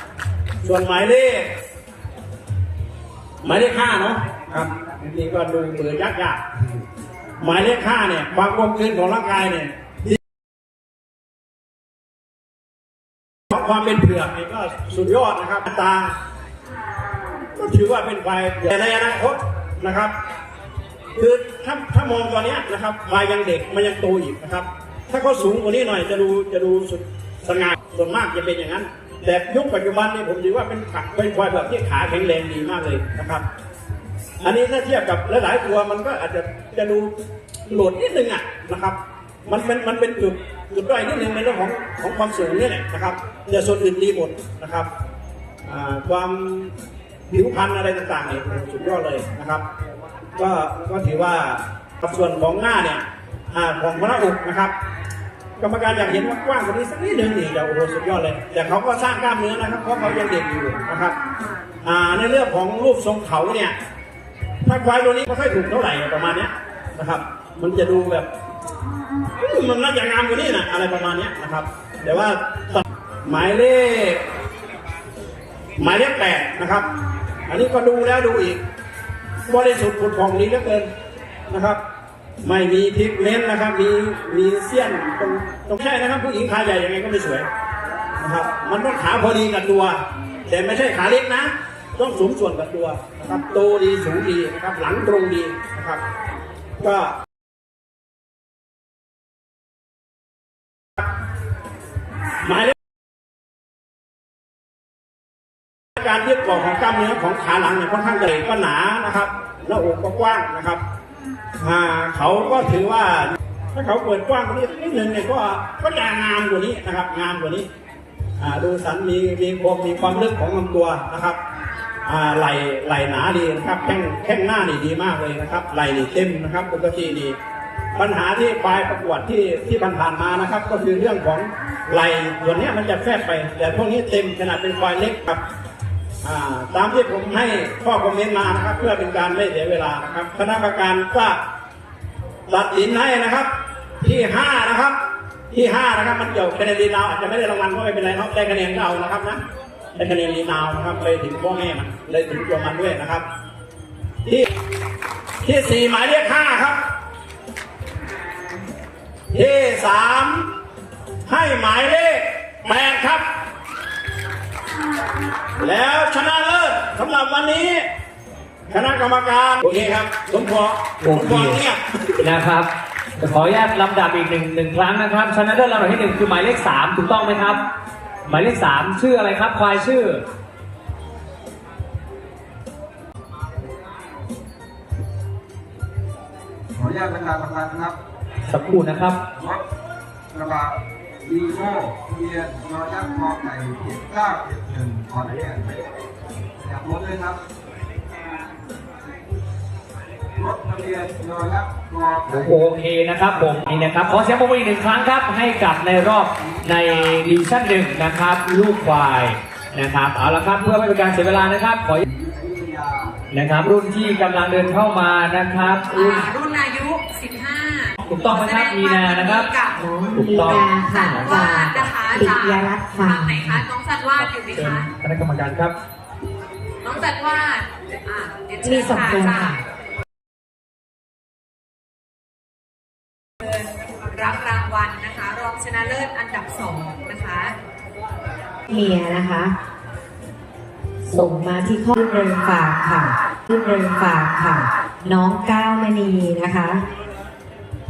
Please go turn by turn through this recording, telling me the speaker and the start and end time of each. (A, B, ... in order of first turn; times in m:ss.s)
0:00.6-0:01.5 A
0:03.4-0:06.4 A
0:07.4-0:10.2 A
0:13.5-0:16.1 A
0:17.5-0:20.1 A
0:21.1-0:33.4 A
0:34.4-0:37.1 A
0:37.7-0:44.9 A
0:45.6-0:46.7 A
0:47.3-0:49.6 A
0:50.4-0:54.7 A
0:55.6-1:01.2 A
1:01.8-1:03.8 A
1:04.6-1:08.3 A
1:09.4-1:14.2 A
1:15.8-1:16.9 A
1:17.5-1:18.6 A
1:19.5-1:20.9 A
1:21.5-1:21.8 A
1:22.4-1:27.5 A
1:28.2-1:36.0 A
1:36.8-1:37.2 A
1:42.4-1:42.7 A
1:46.0-1:50.8 A
1:51.6-1:57.7 A
1:58.4-2:01.4 A
2:02.0-2:07.4 A
2:07.9-2:15.4 A
2:16.2-2:21.4 A
2:22.5-2:25.0 A
2:25.5-2:29.4 A
2:30.0-2:33.2 A
2:35.4-2:36.8 A
2:39.3-2:40.5 A
2:41.2-2:43.2 A
2:45.6-2:47.8 A
2:48.7-2:51.8 A
2:51.0-2:51.6 B
2:52.2-2:57.6 B
2:58.2-3:00.2 B
3:06.7-3:08.0 C
3:08.5-3:09.2 B
3:09.3-3:09.6 C
3:10.3-3:15.9 C
3:16.6-3:17.4 C
3:20.3-3:22.7 C
3:22.3-3:32.0 B
3:32.0-3:33.2 C
3:33.3-3:36.3 B
3:35.9-3:39.8 D
3:38.0-3:39.5 B
3:39.8-3:43.6 E
3:40.1-3:41.9 B
3:40.7-3:44.9 D
3:44.5-3:45.7 B
3:46.8-3:49.6 D
3:48.6-3:49.6 E
3:53.4-3:57.5 D
3:58.7-3:59.5 E
4:01.1-4:06.8 E